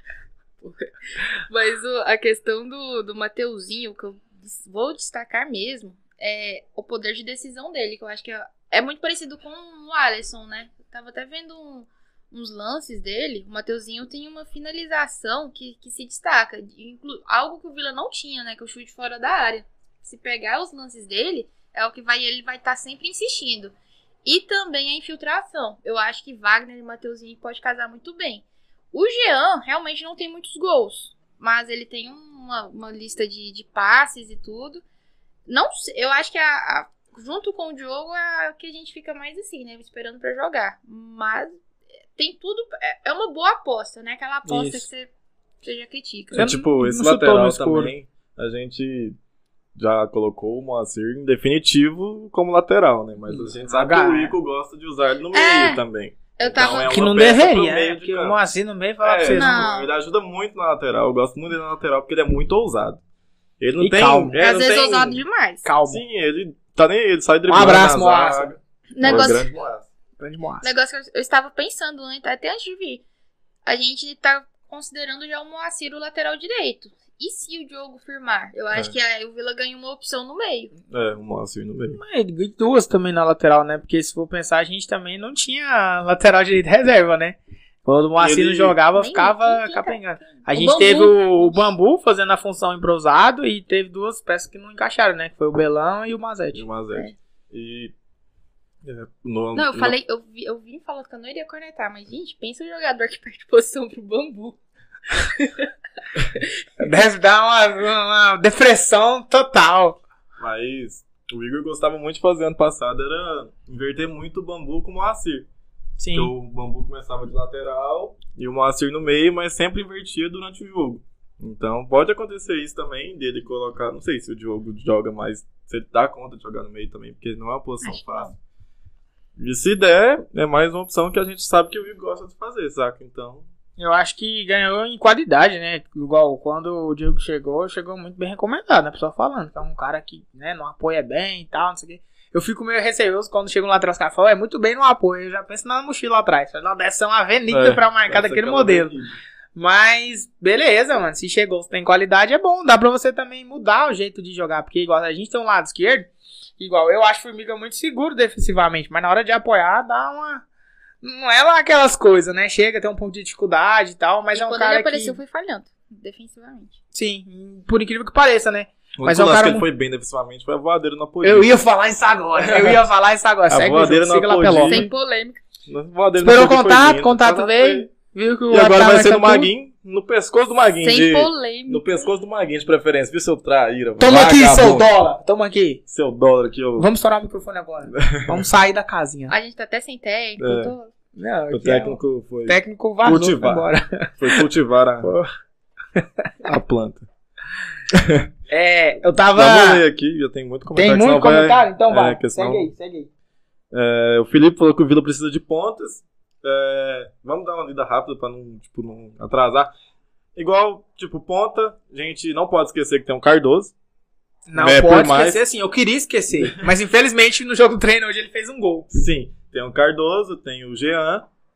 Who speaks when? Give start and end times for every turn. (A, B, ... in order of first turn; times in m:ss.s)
0:00.6-0:34.8 A
0:35.5-0:41.6 A
0:42.2-0:45.1 A
0:44.4-0:44.8 B
0:45.6-0:46.5 A
0:46.3-0:47.9 B
0:46.3-0:49.2 C
0:49.8-0:58.4 C
0:53.3-0:54.3 B
0:55.3-0:55.8 A
0:56.4-0:57.0 A
0:56.8-0:59.7 B
0:59.0-1:03.0 C
0:59.3-0:59.9 A
1:03.6-1:05.2 C
1:03.8-1:04.4 B
1:04.4-1:05.6 A
1:05.6-1:06.0 B
1:05.8-1:09.9 C
1:07.5-1:08.5 B
1:08.9-1:09.5 A
1:10.2-1:10.7 B
1:10.6-1:13.0 A
1:13.6-1:20.7 A
1:20.9-1:22.0 C
1:21.9-1:36.6 B
1:28.2-1:28.8 C
1:28.9-1:31.6 A
1:36.5-1:37.9 C
1:38.8-1:39.9 C
1:39.5-1:44.6 A
1:45.1-1:45.7 A
1:46.3-1:46.6 A
1:46.8-1:50.0 B
1:50.4-1:55.5 C
1:56.0-1:56.3 B
1:56.1-2:08.3 C
2:07.8-2:08.3 A
2:09.4-2:13.4 C
2:13.8-2:28.9 B
2:27.5-2:29.1 C
2:29.5-2:40.4 B
2:41.0-2:45.2 B
2:44.3-2:46.8 A
2:46.9-2:49.6 B
2:49.0-2:51.5 C
2:51.2-2:54.8 B
2:52.4-2:52.8 C
2:53.5-2:54.9 C
2:54.7-2:55.4 A
2:55.7-2:57.9 C
2:56.2-2:59.5 B
2:58.5-3:04.9 C
3:00.8-3:02.1 A
3:04.0-3:05.8 B
3:05.9-3:06.9 C
3:06.8-3:09.3 B
3:07.9-3:08.4 C
3:09.3-3:10.9 A
3:10.4-3:10.7 C
3:11.2-3:14.4 B
3:11.5-3:13.7 C
3:14.2-3:15.1 C
3:15.0-3:15.3 B
3:16.4-3:17.0 C
3:17.9-3:18.3 C
3:18.5-3:19.8 B
3:19.3-3:22.7 C
3:20.8-3:23.1 B
3:23.7-3:29.7 C
3:30.4-3:33.7 C
3:34.5-3:38.9 B
3:34.6-3:35.4 C
3:38.9-3:41.3 C